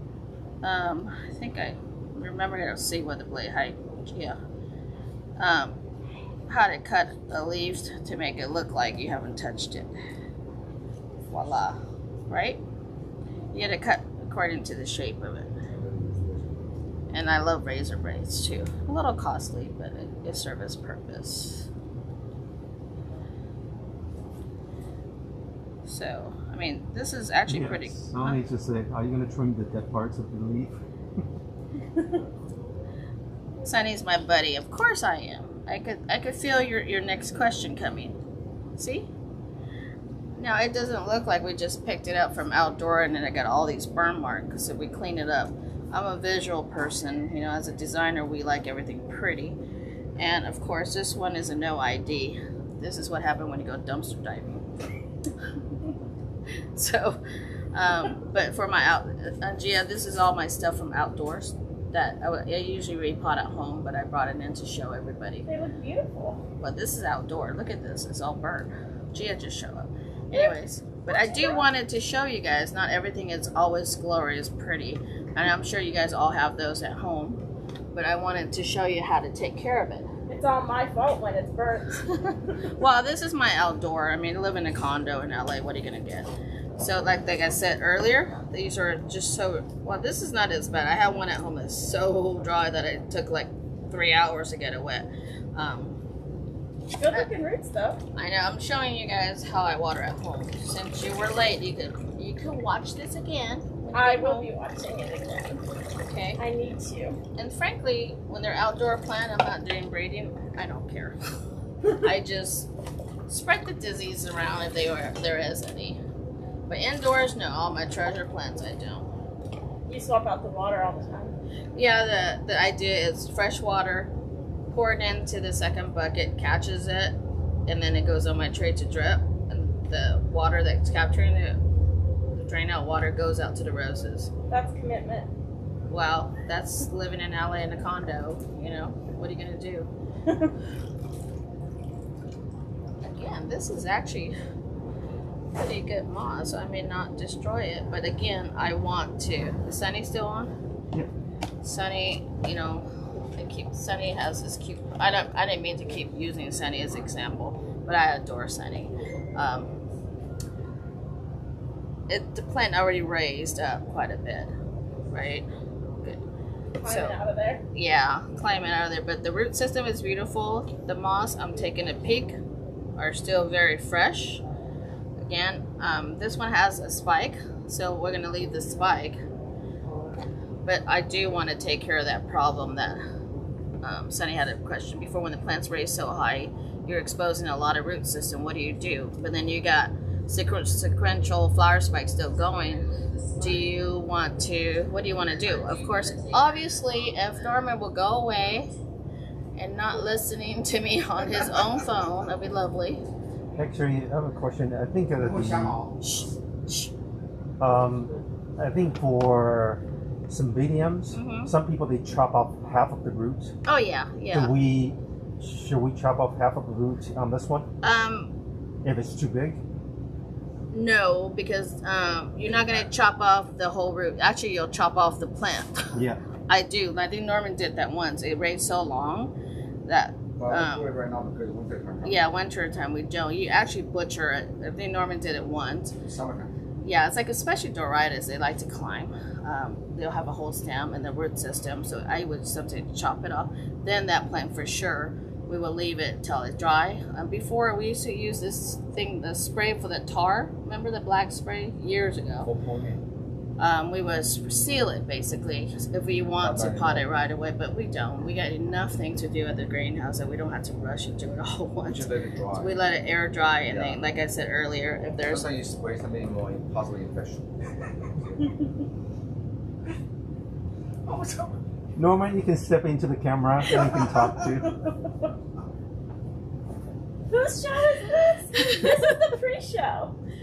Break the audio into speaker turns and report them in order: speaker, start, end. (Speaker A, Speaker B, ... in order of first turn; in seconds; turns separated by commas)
Speaker A: 0.6-4.4, Speaker A: 5.4-5.8, Speaker A: 6.5-9.9, Speaker A: 11.3-12.6, Speaker A: 13.5-15.5, Speaker B: 15.8-16.5, Speaker A: 17.1-21.7, Speaker A: 25.9-28.4, Speaker C: 27.5-30.8, Speaker A: 33.6-38.2, Speaker A: 38.8-39.1, Speaker A: 40.4-49.6, Speaker A: 50.2-54.7, Speaker A: 56.8-57.2, Speaker A: 57.7-65.5, Speaker D: 65.4-66.4, Speaker A: 66.6-77.4, Speaker D: 71.1-71.6, Speaker A: 77.9-80.1, Speaker D: 80.3-82.1, Speaker A: 82.8-96.0, Speaker D: 97.0-98.0, Speaker A: 98.1-104.5, Speaker D: 103.9-105.6, Speaker A: 106.0-106.4, Speaker D: 106.4-107.2, Speaker A: 107.4-111.2, Speaker A: 111.9-112.7, Speaker A: 113.3-116.0, Speaker A: 116.7-119.1, Speaker D: 119.9-121.4, Speaker A: 121.8-124.1, Speaker A: 124.7-127.2, Speaker A: 127.7-131.6, Speaker A: 132.4-134.3, Speaker D: 134.5-135.3, Speaker A: 135.9-139.9, Speaker A: 143.0-144.4, Speaker A: 145.6-150.5, Speaker A: 151.6-159.8, Speaker A: 162.1-164.5, Speaker A: 165.1-165.5, Speaker D: 166.8-167.6, Speaker A: 166.8-167.2, Speaker A: 167.7-172.4, Speaker A: 173.0-174.4, Speaker A: 175.2-179.2, Speaker A: 180.6-183.0, Speaker A: 183.8-198.7, Speaker A: 199.6-203.0, Speaker C: 203.6-205.8, Speaker B: 205.2-206.0, Speaker A: 206.0-206.9, Speaker C: 207.6-213.6, Speaker A: 211.1-211.5, Speaker A: 213.6-214.5, Speaker C: 214.3-217.7, Speaker A: 217.8-218.3, Speaker C: 218.8-219.6, Speaker A: 220.7-225.9, Speaker C: 225.9-226.2, Speaker A: 226.5-229.3, Speaker A: 229.9-230.9, Speaker B: 230.4-232.2, Speaker A: 232.0-235.9, Speaker B: 236.1-236.5, Speaker A: 236.8-252.5, Speaker B: 252.4-253.0, Speaker A: 253.6-265.5, Speaker B: 256.4-257.0, Speaker B: 261.9-262.7, Speaker B: 263.7-264.0, Speaker B: 265.3-267.9, Speaker B: 271.1-271.6, Speaker C: 271.9-274.7, Speaker D: 273.8-275.3, Speaker D: 277.3-280.1, Speaker A: 278.5-279.0